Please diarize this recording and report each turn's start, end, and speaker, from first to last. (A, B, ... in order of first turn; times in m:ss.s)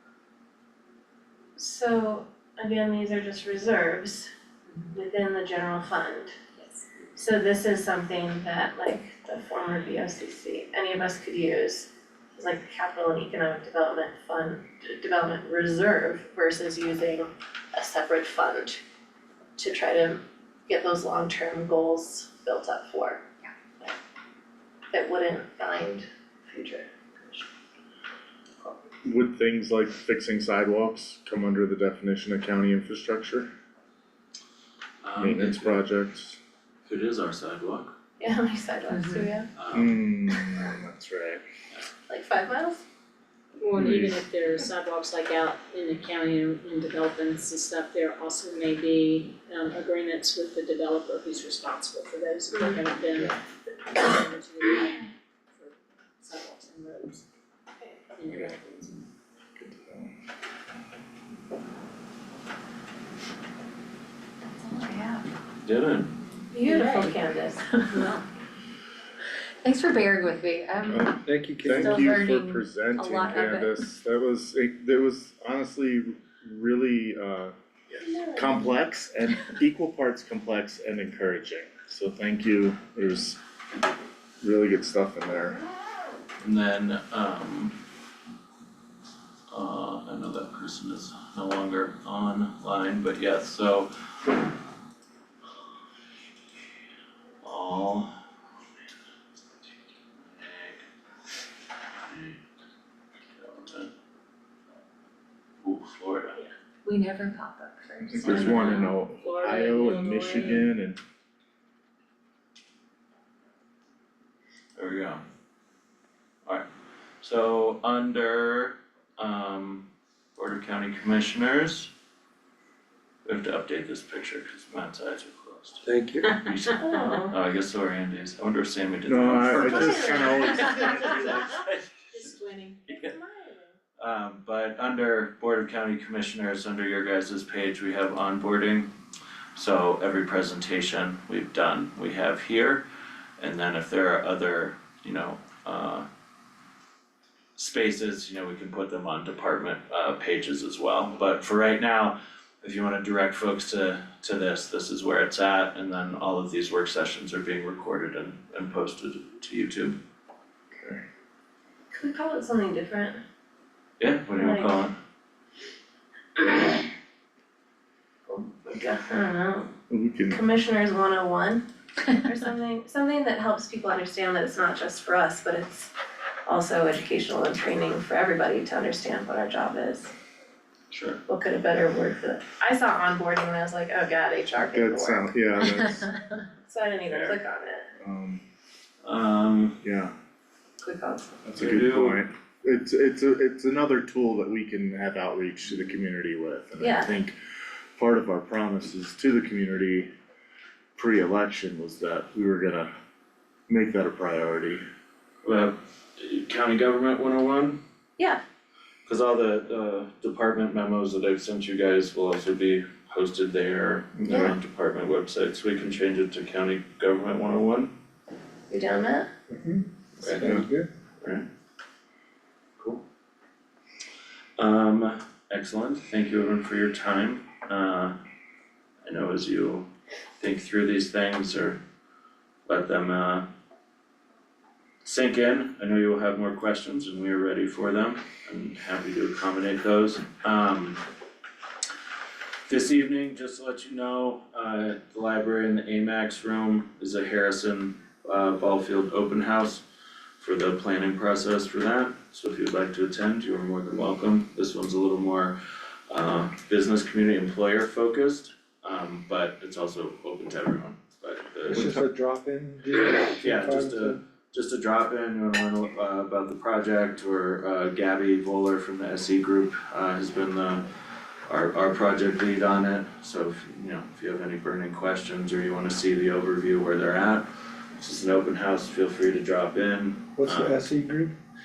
0:01.6-0:04.3 A
0:04.9-0:06.3 A
0:07.1-0:18.8 A
0:19.6-0:23.2 A
0:24.9-0:27.5 A
0:29.0-0:33.5 B
0:35.0-0:35.8 C
0:35.2-0:36.4 B
0:36.8-0:37.9 C
0:38.2-0:39.5 A
0:38.9-0:39.3 D
0:39.5-0:40.0 C
0:39.7-0:41.4 B
0:42.1-0:42.8 A
0:43.6-0:53.4 E
0:43.7-0:44.2 B
0:53.9-0:57.2 E
0:58.2-0:59.0 E
0:59.6-1:00.1 B
1:04.5-1:05.3 D
1:05.6-1:06.1 C
1:06.5-1:07.6 A
1:06.6-1:07.3 D
1:07.8-1:08.2 D
1:09.6-1:11.2 D
1:10.9-1:17.5 B
1:11.2-1:12.2 F
1:11.7-1:13.7 D
1:18.0-1:18.6 A
1:18.2-1:23.4 B
1:24.4-1:25.6 B
1:26.4-1:27.8 C
1:29.5-1:33.9 C
1:37.4-1:38.2 C
1:40.2-1:40.8 C
1:42.1-1:42.4 C
1:43.3-1:43.9 C
1:45.6-1:46.4 C
1:46.8-1:49.0 D
1:48.0-1:51.0 B
1:48.2-1:48.7 C
1:48.5-1:50.7 E
1:54.8-1:55.2 C
1:57.2-2:01.9 C
2:03.2-2:12.3 C
2:05.8-2:06.3 F
2:06.8-2:07.4 A
2:09.1-2:11.1 B
2:09.5-2:11.4 A
2:12.1-2:13.7 A
2:12.9-2:13.1 C
2:14.0-2:18.9 C
2:19.5-2:22.8 C
2:23.4-2:26.1 C
2:27.6-2:40.0 C
2:40.7-2:41.0 B
2:41.9-2:43.2 A
2:44.0-2:45.0 C
2:44.3-2:44.8 A
2:46.4-2:46.8 A
2:48.6-2:49.7 A
2:49.9-2:50.4 B
2:50.3-2:55.9 A
2:56.4-3:00.1 A
3:00.9-3:01.2 C
3:01.3-3:05.3 A
3:04.7-3:06.1 B
3:05.6-3:06.4 D
3:06.6-3:07.9 A
3:07.1-3:07.4 C
3:08.0-3:08.4 B
3:09.0-3:09.8 C
3:09.8-3:10.1 B
3:10.8-3:11.4 A
3:11.4-3:17.4 B
3:11.6-3:12.2 C
3:16.8-3:17.1 A
3:18.0-3:20.1 B
3:21.0-3:22.9 B
3:23.7-3:24.8 B
3:25.4-3:27.8 C
3:29.0-3:37.9 C
3:34.2-3:34.5 B
3:38.7-3:39.3 A
3:39.5-3:40.9 F
3:40.2-3:40.6 C
3:41.2-3:41.5 C
3:42.8-3:43.0 C
3:44.6-3:48.2 C
3:49.0-3:51.8 C
3:52.6-3:53.4 C
3:55.0-4:01.0 C
4:02.7-4:09.8 C
4:10.4-4:15.5 C
4:16.1-4:22.0 C
4:21.7-4:24.2 F
4:23.3-4:30.8 C
4:31.5-4:37.4 C
4:38.0-4:40.8 C
4:40.4-4:41.3 F